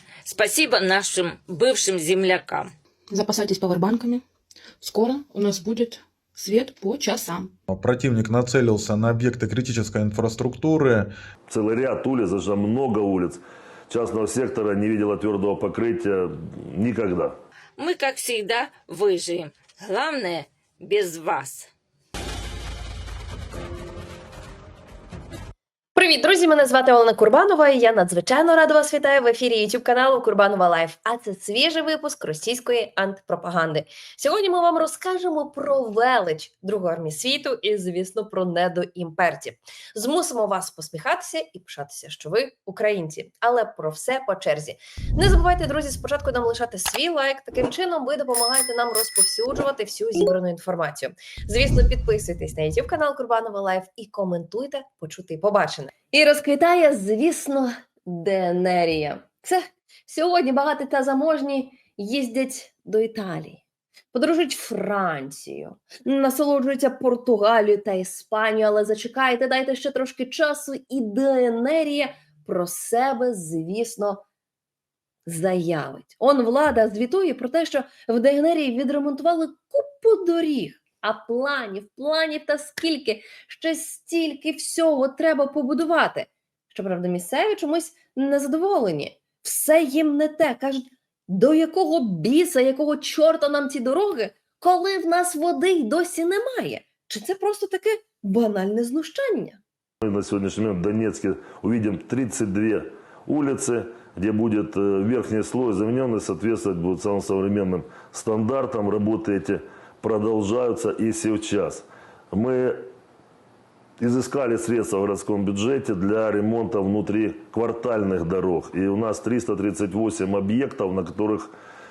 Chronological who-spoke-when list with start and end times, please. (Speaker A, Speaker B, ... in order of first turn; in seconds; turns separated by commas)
Speaker A: 0.3-2.7, Speaker B: 3.1-4.2, Speaker B: 4.8-7.5, Speaker C: 7.7-11.1, Speaker D: 11.5-17.4, Speaker A: 17.8-21.7, Speaker E: 26.0-63.6, Speaker E: 64.1-74.2, Speaker E: 75.3-99.6, Speaker D: 100.0-112.9, Speaker D: 114.0-121.5